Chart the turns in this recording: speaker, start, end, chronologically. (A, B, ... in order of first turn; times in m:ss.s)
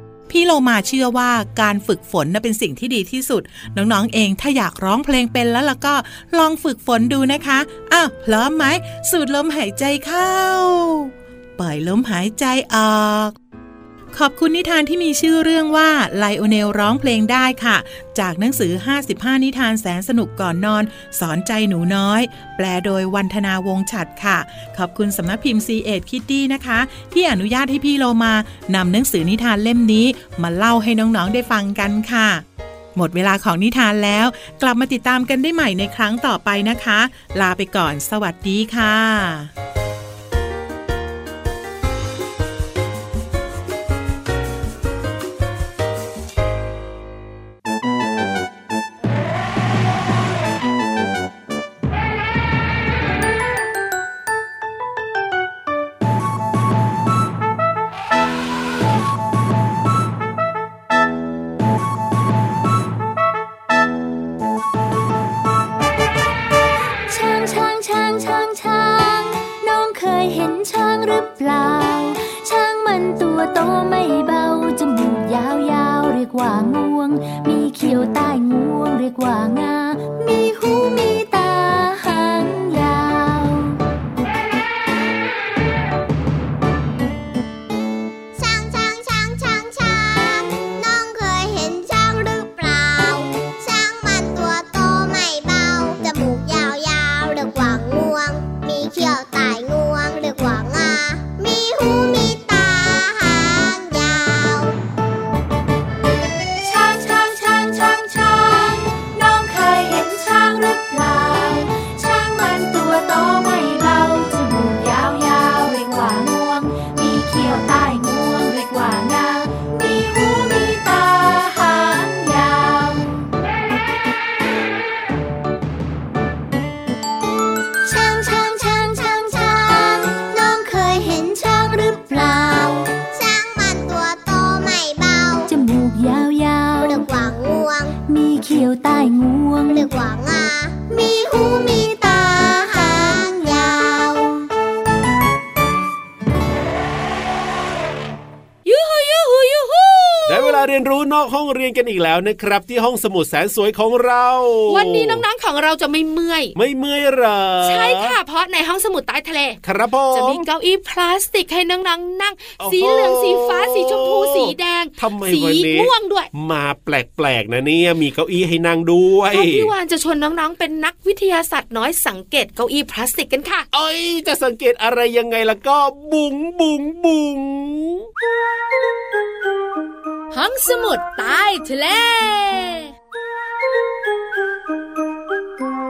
0:00.3-0:13.3 A
0:14.1-0:32.4 A
0:32.9-0:39.5 A
1:07.1-1:23.8 B
1:28.3-1:44.8 C
1:46.6-2:03.3 B
2:07.8-2:09.4 B
2:08.1-2:15.5 C
2:12.1-2:12.5 B
2:15.5-2:17.0 B
2:16.8-2:17.9 C
2:18.1-2:19.9 B
2:19.7-2:24.4 C
2:28.6-2:30.6 D
2:30.3-2:35.2 E
2:34.7-2:36.5 D
2:36.6-2:38.1 E
2:37.6-2:39.6 D
2:39.6-2:40.4 E
2:40.1-2:46.3 D
2:42.6-2:49.7 E
2:49.3-2:53.6 D
2:53.7-2:58.1 E
3:00.3-3:02.9 D